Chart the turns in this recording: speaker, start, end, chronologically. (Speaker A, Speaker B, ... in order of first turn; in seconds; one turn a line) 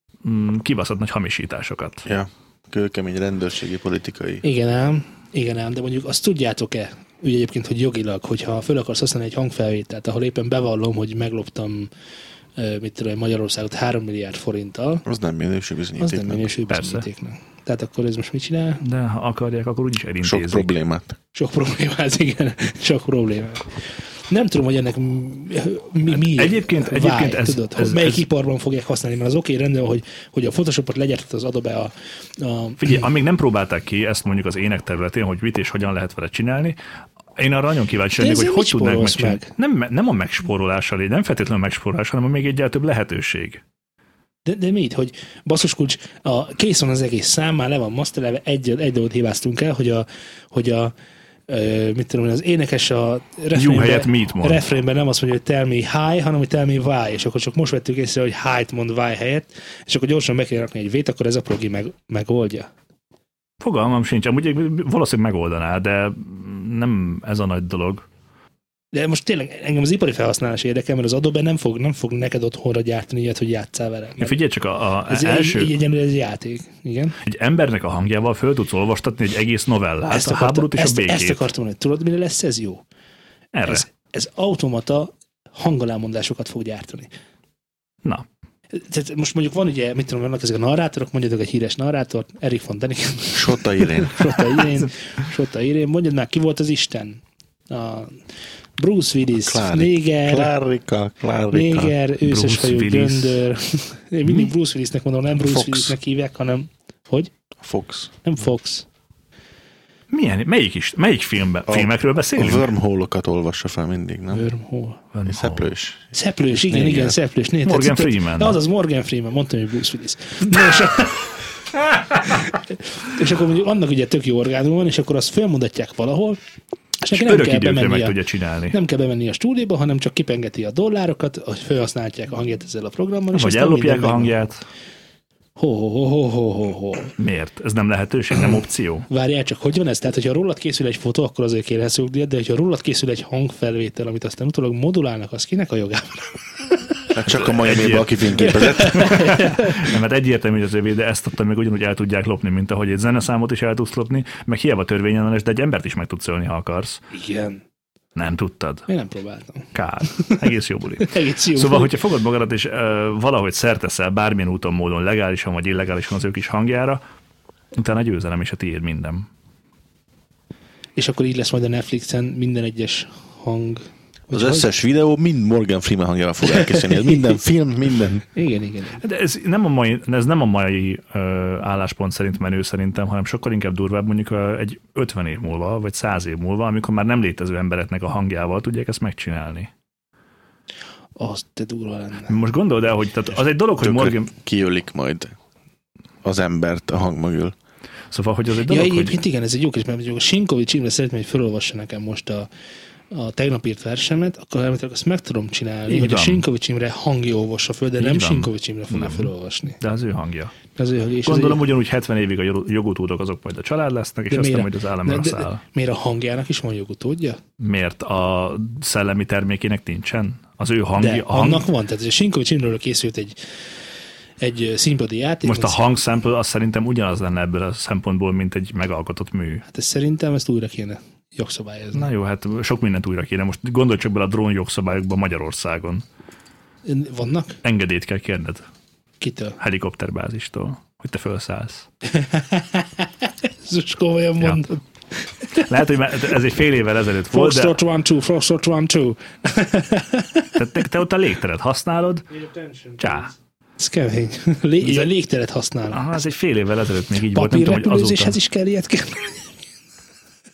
Speaker A: 0.2-2.0
Speaker B: 2.0-4.4
Speaker C: 4.4-11.9
Speaker C: 12.6-15.0
Speaker B: 15.0-16.5
Speaker C: 16.0-18.8
Speaker A: 16.7-17.0
Speaker A: 18.8-20.7
Speaker B: 20.2-21.1
Speaker C: 21.3-33.0
Speaker A: 26.1-28.2
Speaker A: 32.8-36.8
Speaker A: 37.4-43.6
Speaker C: 38.2-39.5
Speaker C: 44.4-50.9
Speaker C: 51.5-62.7
Speaker A: 53.5-54.6
Speaker A: 63.6-68.0
Speaker C: 68.9-74.4
Speaker A: 74.2-75.7
Speaker C: 75.1-77.2
Speaker A: 77.2-81.4
Speaker C: 80.0-82.8
Speaker A: 83.5-83.8
Speaker C: 83.6-87.1
Speaker C: 88.7-98.2
Speaker B: 93.3-94.4
Speaker C: 98.8-100.5
Speaker B: 99.4-101.9
Speaker C: 101.5-107.3
Speaker A: 102.2-103.4
Speaker B: 105.4-105.9
Speaker B: 107.6-108.1
Speaker C: 108.2-108.8
Speaker A: 110.1-112.7
Speaker B: 111.7-114.5
Speaker C: 114.3-115.0
Speaker A: 115.1-115.7
Speaker B: 115.2-116.1
Speaker C: 116.1-121.3
Speaker B: 116.7-117.2
Speaker A: 117.6-118.6
Speaker C: 122.1-126.4
Speaker C: 127.0-128.2
Speaker A: 127.1-128.8
Speaker C: 128.7-134.3
Speaker A: 133.3-134.6
Speaker C: 135.6-137.1
Speaker A: 137.2-139.1
Speaker C: 139.1-146.8
Speaker B: 147.1-149.2
Speaker A: 147.3-157.0
Speaker C: 148.4-149.8
Speaker C: 157.1-157.6
Speaker A: 158.2-158.9
Speaker C: 158.9-160.5
Speaker A: 159.7-167.0
Speaker C: 161.0-161.9
Speaker A: 167.7-169.3
Speaker C: 170.9-174.7
Speaker B: 174.3-178.2
Speaker C: 176.5-177.2
Speaker C: 178.3-179.0
Speaker A: 179.0-189.7
Speaker C: 191.2-192.4
Speaker A: 192.3-194.3
Speaker B: 193.8-195.3
Speaker B: 196.2-197.5
Speaker A: 198.1-199.2
Speaker C: 198.6-202.5
Speaker C: 203.1-209.8
Speaker A: 205.9-206.4
Speaker A: 208.0-210.5
Speaker C: 210.8-211.6
Speaker A: 211.2-215.6
Speaker C: 214.3-217.4
Speaker A: 217.6-221.7
Speaker C: 220.9-223.4
Speaker C: 224.4-225.8
Speaker A: 225.4-229.6
Speaker C: 229.7-232.1
Speaker A: 231.9-236.0
Speaker C: 236.8-237.6
Speaker A: 237.6-238.6
Speaker C: 239.2-239.6
Speaker A: 239.6-241.8
Speaker C: 242.1-245.7
Speaker A: 245.7-247.8
Speaker C: 247.3-250.6
Speaker A: 250.6-252.2
Speaker C: 252.3-256.1
Speaker A: 253.0-253.3
Speaker A: 255.9-258.4
Speaker C: 257.3-259.5